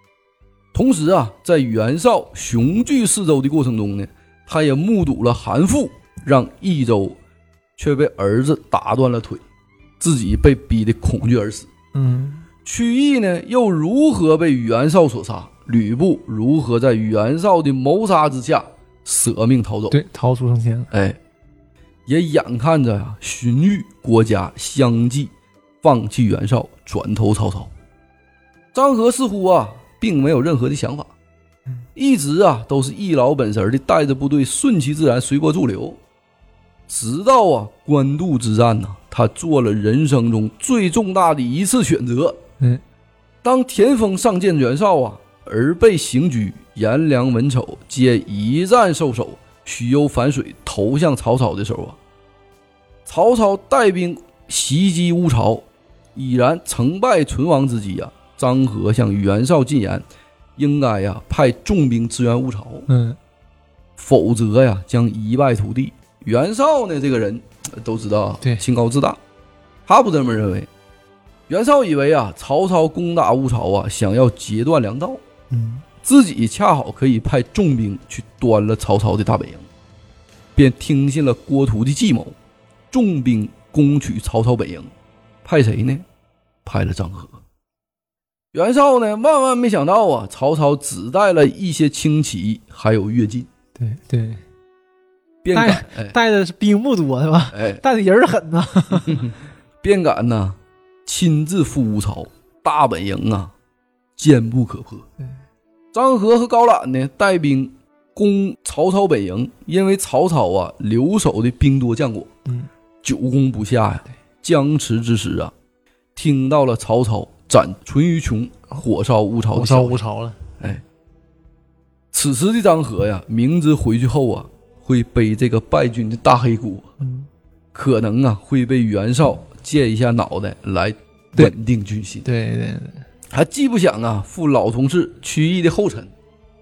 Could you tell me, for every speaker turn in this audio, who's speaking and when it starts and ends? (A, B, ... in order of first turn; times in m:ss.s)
0:00.7-0:07.2 A
0:07.8-0:09.4 A
0:10.0-0:11.7 A
0:11.9-0:12.4 B
0:12.6-0:20.0 A
0:19.9-0:20.9 B
0:20.9-0:21.2 A
0:22.1-0:27.7 A
0:28.7-0:31.1 A
0:32.0-0:36.0 A
0:36.9-0:42.4 A
0:43.4-0:52.0 A
0:53.1-1:00.0 A
1:00.6-1:02.9 A
1:02.9-1:03.2 B
1:04.0-1:09.2 A
1:09.9-1:10.7 A
1:11.5-1:15.2 A
1:15.5-1:15.8 B
1:16.0-1:19.7 A
1:20.6-1:22.4 A
1:22.9-1:24.9 A
1:25.4-1:26.0 A
1:26.6-1:27.4 A
1:28.5-1:33.5 A
1:33.8-1:34.4 B
1:35.4-1:36.2 A
1:35.5-1:39.3 B
1:37.5-1:37.8 A
1:39.8-1:43.5 A
1:44.2-1:45.1 A
1:45.9-1:52.3 A
1:53.0-1:55.5 A
1:56.2-2:00.0 A
1:59.5-2:00.4 B
2:02.1-2:06.9 A
2:07.0-2:07.3 B
2:07.7-2:12.3 A
2:12.2-2:13.0 B
2:13.3-2:16.1 A